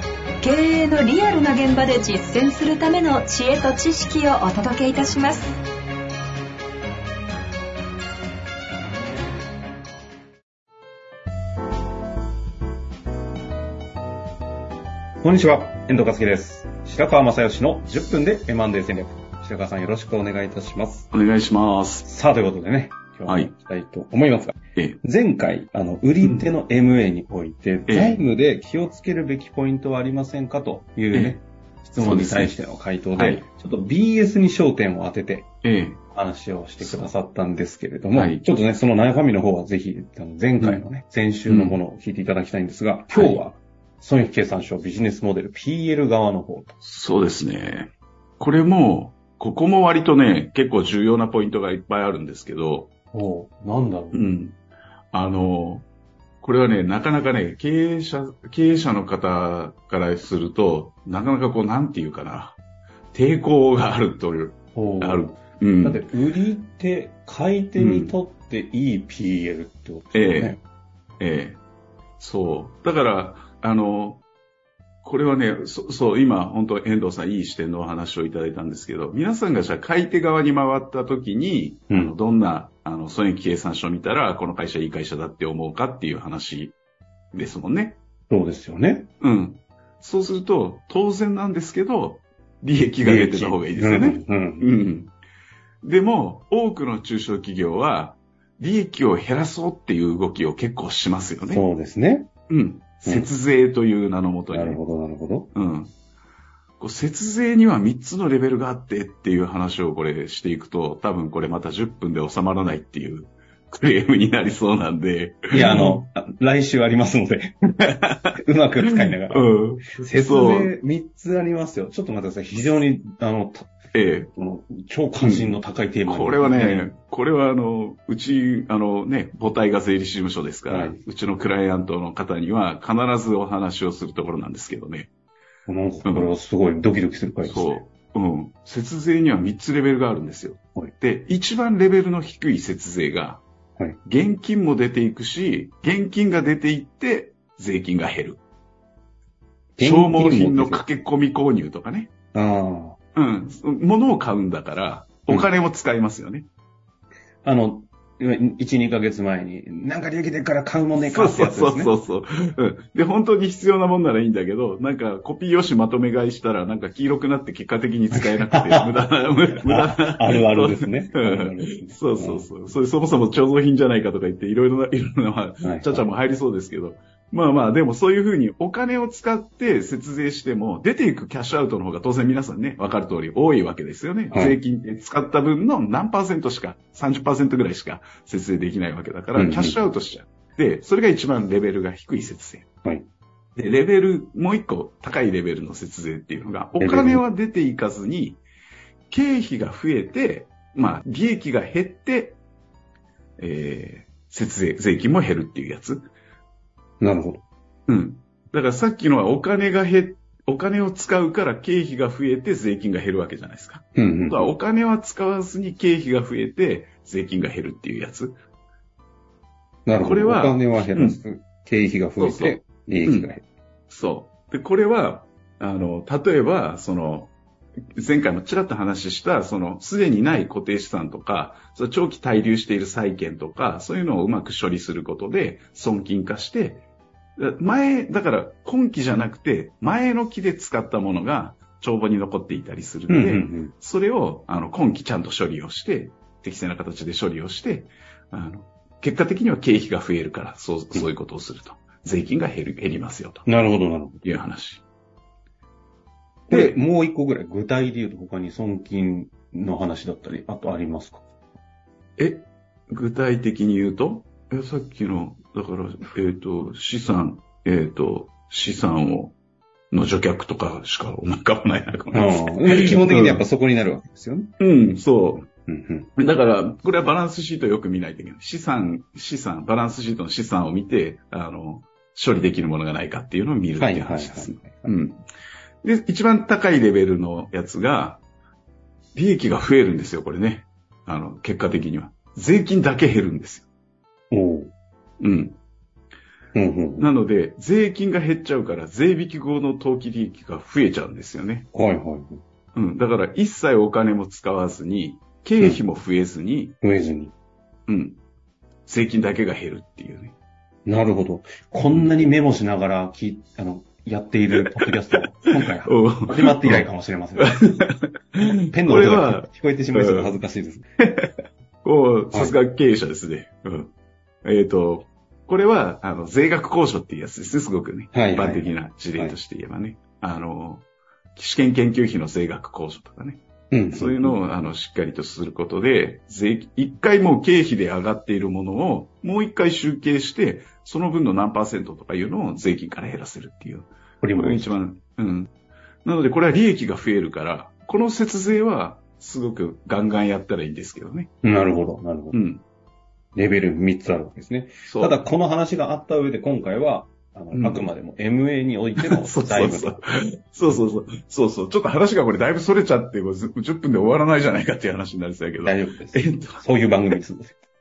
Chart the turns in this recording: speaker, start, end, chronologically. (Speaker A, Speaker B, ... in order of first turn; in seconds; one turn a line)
Speaker A: 0.4-5.5
Speaker B: 15.2-21.1
Speaker C: 21.1-22.1
Speaker B: 22.0-35.5
Speaker C: 23.3-23.5
Speaker C: 27.9-28.2
Speaker C: 31.1-31.4
Speaker C: 32.0-32.5
Speaker C: 33.1-33.4
Speaker C: 35.6-36.0
Speaker B: 36.1-46.8
Speaker C: 36.8-37.1
Speaker C: 38.1-38.5
Speaker C: 40.6-40.8
Speaker C: 41.5-41.8
Speaker C: 43.1-43.4
Speaker C: 46.8-52.9
Speaker B: 53.1-54.3
Speaker C: 54.1-54.6
Speaker C: 55.1-55.9
Speaker C: 56.4-62.6
Speaker C: 63.1-66.0
Speaker B: 64.7-70.6
Speaker C: 67.8-68.1
Speaker C: 70.1-70.6
Speaker C: 71.2-71.6
Speaker C: 72.2-74.2
Speaker C: 75.0-86.7
Speaker C: 87.3-88.0
Speaker B: 88.3-89.1
Speaker C: 89.2-95.1
Speaker B: 93.0-94.7
Speaker C: 95.8-101.6
Speaker B: 101.4-102.3
Speaker C: 102.5-104.8
Speaker B: 104.5-105.5
Speaker C: 105.5-105.9
Speaker C: 106.8-116.0
Speaker B: 115.5-123.7
Speaker C: 119.0-120.7
Speaker C: 123.9-124.3
Speaker B: 124.3-126.9
Speaker C: 125.2-125.5
Speaker C: 126.1-135.1
Speaker B: 130.7-131.0
Speaker B: 135.7-137.8
Speaker C: 136.0-136.3
Speaker C: 137.4-143.4
Speaker C: 144.0-148.4
Speaker B: 149.8-150.8
Speaker C: 149.8-152.1
Speaker B: 152.3-153.0
Speaker C: 153.1-156.5
Speaker B: 157.4-161.9
Speaker C: 160.9-192.7
Speaker B: 168.1-169.0
Speaker B: 169.5-172.5
Speaker B: 175.6-176.1
Speaker B: 184.3-184.6
Speaker B: 189.3-189.8
Speaker C: 193.6-198.4
Speaker B: 196.8-197.2
Speaker C: 199.1-202.4
Speaker C: 203.4-206.1
Speaker B: 207.0-207.4
Speaker C: 207.9-218.4
Speaker B: 213.9-214.5
Speaker B: 219.8-223.4
Speaker C: 220.0-221.2
Speaker C: 222.2-223.3
Speaker C: 223.9-227.3
Speaker C: 228.0-236.8
Speaker C: 237.4-253.4
Speaker B: 243.1-243.7
Speaker B: 253.4-254.2
Speaker C: 254.2-254.8
Speaker C: 256.5-256.8
Speaker B: 256.5-261.2
Speaker C: 262.2-269.3
Speaker C: 269.9-273.4
Speaker B: 272.1-274.5
Speaker C: 274.6-275.5
Speaker B: 275.5-276.1
Speaker C: 276.2-285.2
Speaker B: 283.8-284.9
Speaker C: 285.8-288.2
Speaker C: 289.1-293.7
Speaker B: 294.3-294.7
Speaker C: 295.2-295.6
Speaker B: 296.5-297.1
Speaker C: 297.0-301.7
Speaker B: 301.7-302.4
Speaker C: 302.7-306.8
Speaker B: 306.8-307.3
Speaker C: 307.9-308.2
Speaker C: 308.9-310.3
Speaker B: 310.9-317.8
Speaker C: 311.8-312.3
Speaker C: 314.5-316.9
Speaker C: 317.4-320.4
Speaker B: 318.7-320.9
Speaker C: 321.0-321.3
Speaker C: 321.8-323.9
Speaker C: 324.4-345.5
Speaker B: 328.1-329.4
Speaker B: 333.7-334.4
Speaker B: 344.2-344.8
Speaker C: 346.0-351.3
Speaker B: 351.4-352.4
Speaker C: 352.3-352.6
Speaker B: 353.3-360.0
Speaker C: 354.9-355.2
Speaker C: 357.5-357.9
Speaker C: 359.0-367.2
Speaker B: 365.6-367.6